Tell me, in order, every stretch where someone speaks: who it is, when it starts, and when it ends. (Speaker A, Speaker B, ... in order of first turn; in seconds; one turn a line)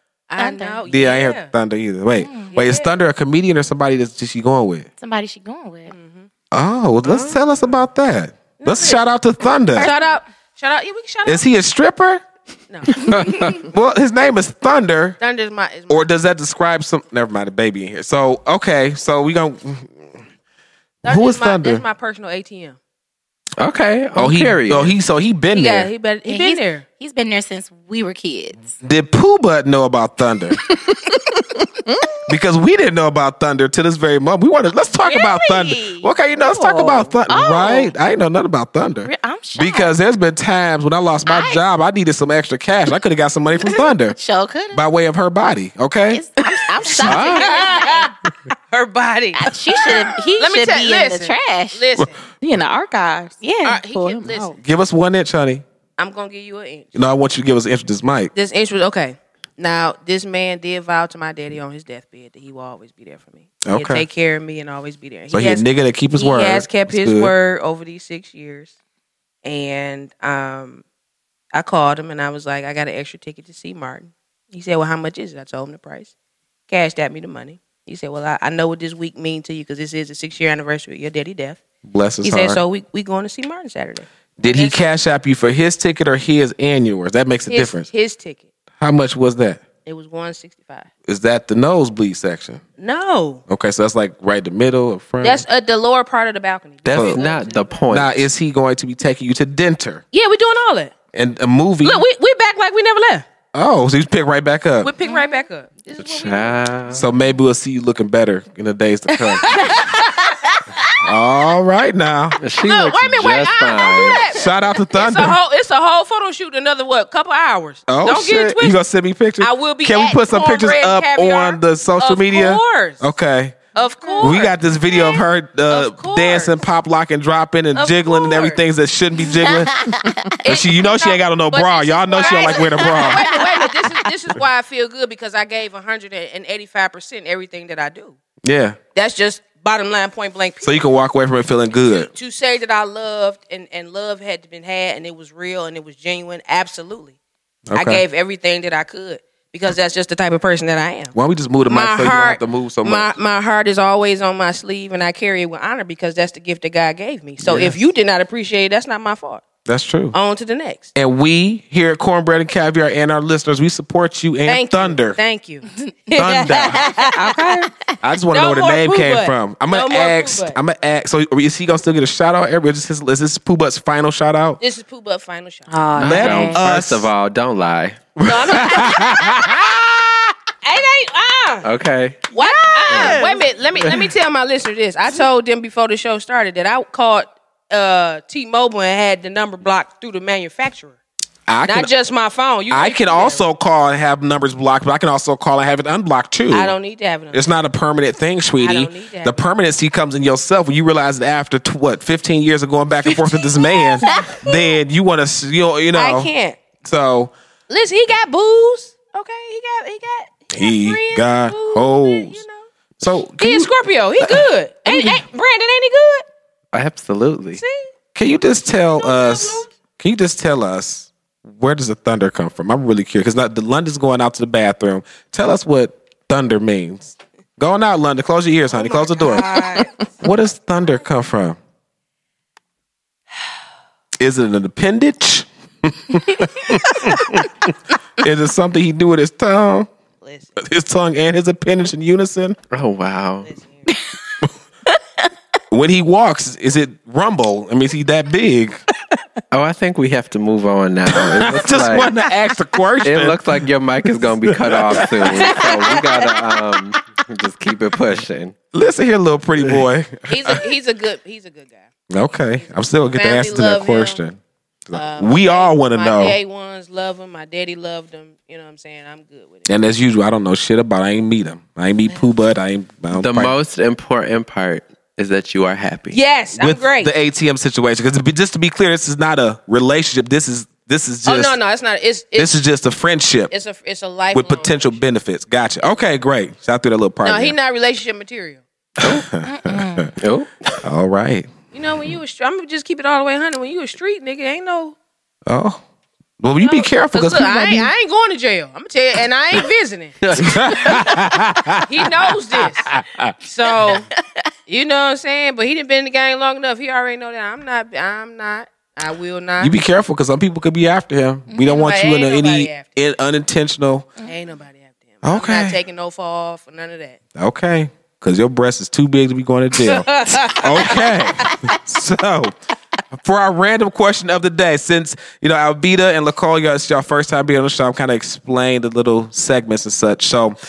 Speaker A: 0.3-1.5
Speaker B: 0.4-0.8
Speaker C: 0.8-4.9
Speaker B: 2.2-2.5
Speaker A: 2.5-2.9
Speaker B: 5.0-5.9
Speaker A: 5.9-6.3
Speaker C: 6.5-9.9
Speaker A: 7.0-7.4
Speaker A: 8.6-9.0
Speaker A: 9.7-11.4
Speaker C: 11.2-12.2
Speaker A: 12.7-13.6
Speaker C: 12.9-15.2
Speaker A: 15.2-16.1
Speaker C: 15.9-20.1
Speaker A: 21.0-22.8
Speaker C: 21.0-21.8
Speaker D: 23.6-24.9
Speaker C: 24.1-25.9
Speaker A: 25.5-26.8
Speaker B: 26.3-28.7
Speaker C: 28.8-30.6
Speaker C: 32.3-44.2
Speaker B: 35.0-36.1
Speaker B: 36.8-37.9
Speaker B: 39.0-39.9
Speaker B: 41.3-41.6
Speaker B: 44.1-44.8
Speaker C: 44.7-46.2
Speaker B: 46.1-48.1
Speaker E: 46.7-47.3
Speaker D: 47.0-47.5
Speaker A: 47.3-48.1
Speaker A: 48.7-52.2
Speaker B: 49.3-51.8
Speaker E: 52.4-54.6
Speaker B: 53.4-53.8
Speaker A: 53.6-54.6
Speaker C: 54.6-55.6
Speaker A: 56.0-57.0
Speaker C: 56.9-58.3
Speaker A: 58.3-68.7
Speaker C: 63.6-64.0
Speaker C: 65.3-67.3
Speaker A: 69.4-70.8
Speaker A: 71.5-76.1
Speaker A: 76.7-81.6
Speaker C: 81.8-82.6
Speaker A: 82.2-84.8
Speaker C: 84.4-87.9
Speaker A: 87.5-88.5
Speaker C: 88.8-89.6
Speaker A: 89.8-90.9
Speaker C: 91.0-92.6
Speaker A: 92.8-93.4
Speaker C: 93.5-95.4
Speaker A: 95.2-97.8
Speaker D: 96.9-98.2
Speaker C: 96.9-97.2
Speaker C: 97.9-100.0
Speaker A: 100.1-100.9
Speaker C: 101.1-102.0
Speaker A: 101.8-103.2
Speaker C: 103.5-104.9
Speaker A: 104.8-106.6
Speaker B: 105.0-105.4
Speaker D: 106.0-107.0
Speaker C: 106.9-109.8
Speaker A: 109.2-110.8
Speaker C: 111.0-112.4
Speaker D: 112.4-114.3
Speaker A: 112.6-118.8
Speaker C: 114.3-115.3
Speaker C: 117.9-123.6
Speaker A: 119.4-123.0
Speaker A: 123.7-126.7
Speaker C: 124.2-133.3
Speaker A: 127.7-128.6
Speaker B: 129.3-130.3
Speaker A: 130.4-138.2
Speaker B: 132.2-133.6
Speaker C: 138.4-138.8
Speaker A: 138.9-140.8
Speaker C: 140.6-142.1
Speaker A: 141.7-147.2
Speaker C: 147.7-148.0
Speaker A: 147.7-151.1
Speaker C: 151.1-153.1
Speaker A: 151.7-159.4
Speaker C: 157.4-157.8
Speaker C: 159.7-160.1
Speaker A: 160.1-160.9
Speaker C: 160.9-165.2
Speaker A: 164.4-167.5
Speaker C: 166.1-166.9
Speaker B: 166.8-167.1
Speaker C: 168.0-174.6
Speaker A: 168.3-170.6
Speaker A: 174.6-175.7
Speaker E: 175.7-176.6
Speaker D: 176.0-178.0
Speaker C: 176.0-177.1
Speaker C: 178.2-180.3
Speaker A: 178.2-179.6
Speaker A: 180.6-181.7
Speaker D: 181.6-182.2
Speaker A: 182.3-191.0
Speaker E: 182.3-183.4
Speaker D: 182.9-183.2
Speaker C: 191.5-191.9
Speaker A: 191.7-193.4
Speaker C: 192.7-196.7
Speaker A: 196.5-197.5
Speaker C: 197.3-206.3
Speaker A: 198.6-199.4
Speaker A: 203.0-204.7
Speaker A: 205.9-206.6
Speaker C: 206.8-207.3
Speaker A: 207.7-212.7
Speaker C: 210.5-212.4
Speaker C: 213.0-215.2
Speaker A: 213.4-216.2
Speaker D: 216.7-217.6
Speaker A: 217.6-217.9
Speaker C: 218.1-229.5
Speaker A: 218.9-219.7
Speaker A: 228.7-229.9
Speaker E: 229.2-229.9
Speaker C: 230.2-231.6
Speaker C: 234.2-237.6
Speaker C: 238.2-239.9
Speaker A: 240.2-240.6
Speaker C: 240.6-242.6
Speaker D: 242.7-243.5
Speaker A: 243.4-243.9
Speaker C: 245.7-248.8
Speaker D: 249.5-252.1
Speaker C: 251.1-253.4
Speaker D: 253.0-258.5
Speaker C: 254.4-256.0
Speaker A: 255.4-256.1
Speaker C: 258.7-260.6
Speaker A: 260.3-261.9
Speaker C: 262.1-266.4
Speaker A: 262.6-264.2
Speaker A: 264.9-269.7
Speaker C: 269.7-273.5
Speaker D: 273.1-276.2
Speaker A: 276.1-277.1
Speaker C: 276.6-281.6
Speaker A: 281.2-282.6
Speaker C: 282.4-283.5
Speaker A: 283.5-285.0
Speaker C: 284.3-287.5
Speaker A: 287.2-288.6
Speaker C: 289.0-290.1
Speaker B: 289.4-290.1
Speaker D: 290.2-290.8
Speaker C: 290.8-291.5
Speaker A: 291.7-294.9
Speaker C: 295.5-295.8
Speaker C: 296.4-297.9
Speaker A: 296.6-301.1
Speaker D: 300.2-301.0
Speaker C: 300.4-303.3
Speaker A: 301.8-304.1
Speaker A: 304.7-309.7
Speaker C: 309.6-314.1
Speaker B: 311.5-311.8
Speaker A: 311.6-312.9
Speaker A: 314.2-317.2
Speaker C: 315.2-315.8
Speaker C: 317.3-322.5
Speaker A: 319.8-321.5
Speaker C: 323.1-330.6